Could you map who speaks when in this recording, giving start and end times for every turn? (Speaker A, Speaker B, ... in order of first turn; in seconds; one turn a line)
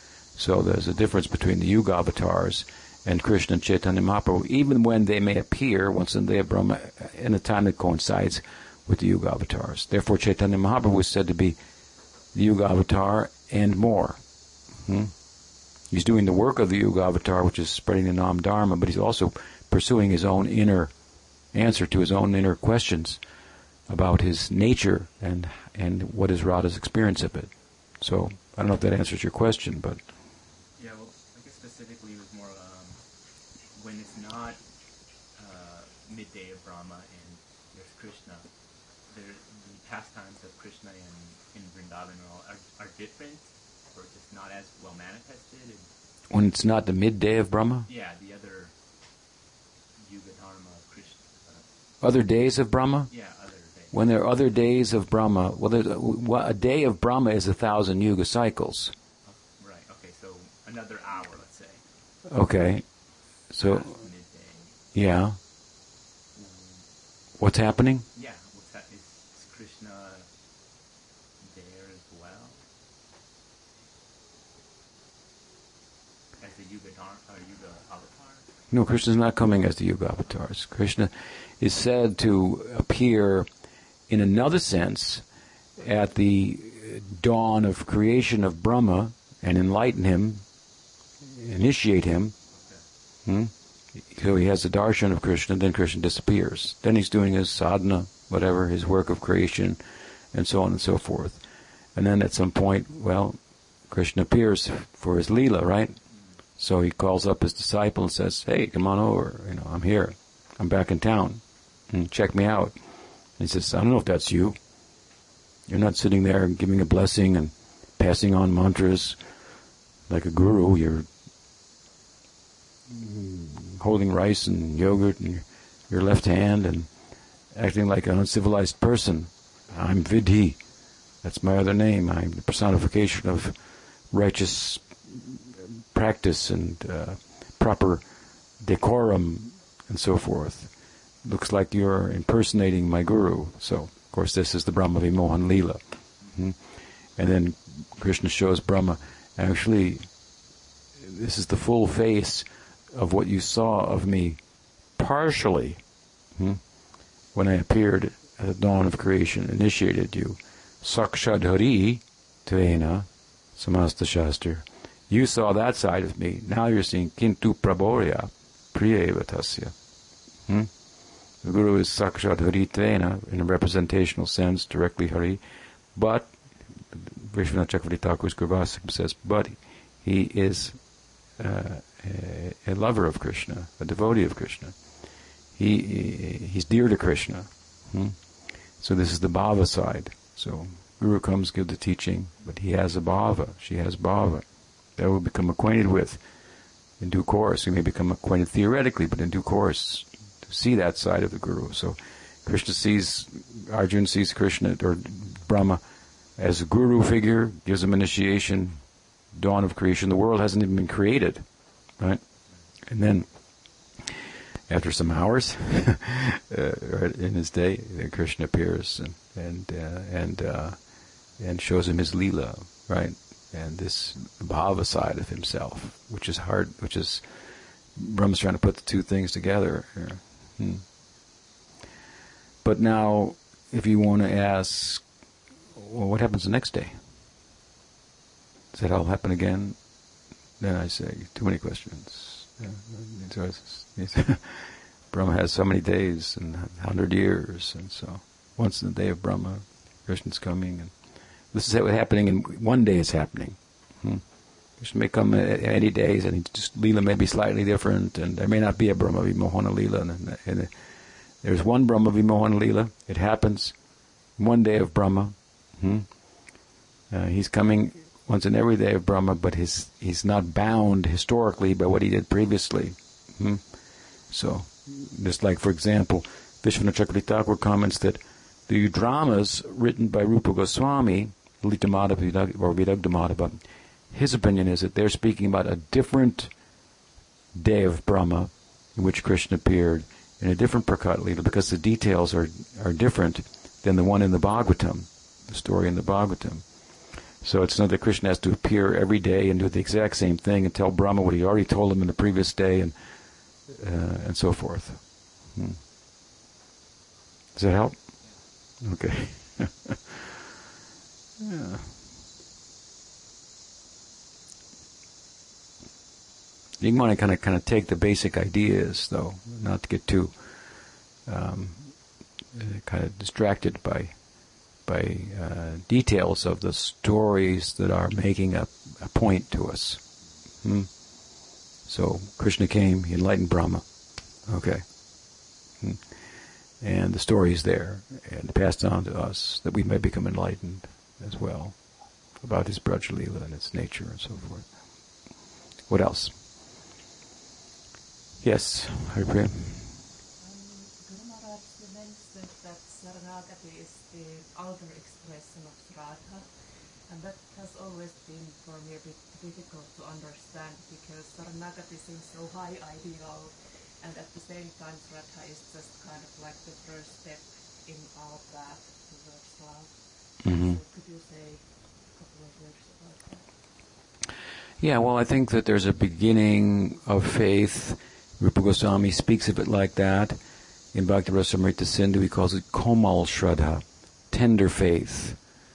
Speaker A: 0.3-11.6
Speaker A: 12.3-14.2
Speaker A: 14.8-15.1
Speaker A: 15.9-20.9
Speaker A: 21.5-23.2
Speaker A: 23.9-30.0
Speaker B: 30.8-33.0
Speaker B: 33.7-34.6
Speaker B: 35.4-38.5
Speaker B: 39.1-45.9
Speaker A: 46.3-47.9
Speaker B: 47.9-48.7
Speaker B: 50.0-51.7
Speaker A: 52.0-53.1
Speaker B: 53.1-54.1
Speaker A: 53.9-58.9
Speaker B: 59.2-61.8
Speaker A: 62.3-62.9
Speaker A: 63.5-63.9
Speaker B: 63.6-64.8
Speaker A: 64.9-65.4
Speaker B: 66.3-66.9
Speaker A: 67.4-68.0
Speaker B: 68.1-70.3
Speaker B: 71.4-72.6
Speaker B: 76.4-78.5
Speaker A: 78.7-83.5
Speaker A: 84.1-85.2
Speaker A: 85.8-90.4
Speaker A: 91.2-92.3
Speaker B: 92.5-92.8
Speaker A: 93.2-93.5
Speaker A: 94.1-99.8
Speaker A: 100.3-101.4
Speaker A: 101.9-106.0
Speaker A: 106.6-112.7
Speaker A: 113.4-114.6
Speaker A: 115.7-119.2
Speaker A: 120.1-121.1
Speaker A: 122.9-126.9
Speaker A: 127.5-130.6
Speaker A: 131.2-133.6
Speaker A: 134.1-135.4
Speaker A: 135.9-138.0
Speaker A: 138.6-146.6
Speaker A: 147.2-150.1
Speaker A: 151.0-154.4
Speaker A: 154.9-155.8
Speaker A: 156.3-156.6
Speaker A: 157.3-169.7
Speaker A: 171.4-175.4
Speaker A: 175.9-180.8
Speaker A: 181.3-184.8
Speaker A: 185.5-196.2
Speaker A: 197.0-205.8
Speaker A: 206.4-208.8
Speaker A: 209.3-211.4
Speaker A: 212.8-213.3
Speaker A: 214.7-227.2
Speaker A: 227.9-230.8
Speaker A: 232.6-235.0
Speaker A: 235.7-237.0
Speaker A: 238.7-239.8
Speaker A: 240.6-250.9
Speaker A: 251.5-254.2
Speaker A: 254.8-260.7
Speaker A: 261.4-263.8
Speaker A: 264.4-266.1
Speaker A: 267.1-273.7
Speaker A: 274.3-286.5
Speaker A: 287.5-296.7
Speaker A: 297.4-302.9
Speaker A: 303.6-305.8
Speaker A: 307.5-310.0
Speaker B: 308.2-308.4
Speaker A: 311.4-311.9
Speaker A: 316.8-320.4
Speaker A: 321.2-324.2
Speaker A: 324.8-330.0
Speaker A: 330.6-331.1
Speaker A: 331.8-333.9
Speaker A: 334.4-336.1
Speaker A: 336.8-344.7
Speaker A: 345.9-346.4
Speaker A: 348.4-350.0
Speaker C: 350.4-356.5
Speaker C: 357.1-373.5
Speaker A: 370.4-370.8
Speaker A: 374.8-380.4
Speaker A: 380.9-385.4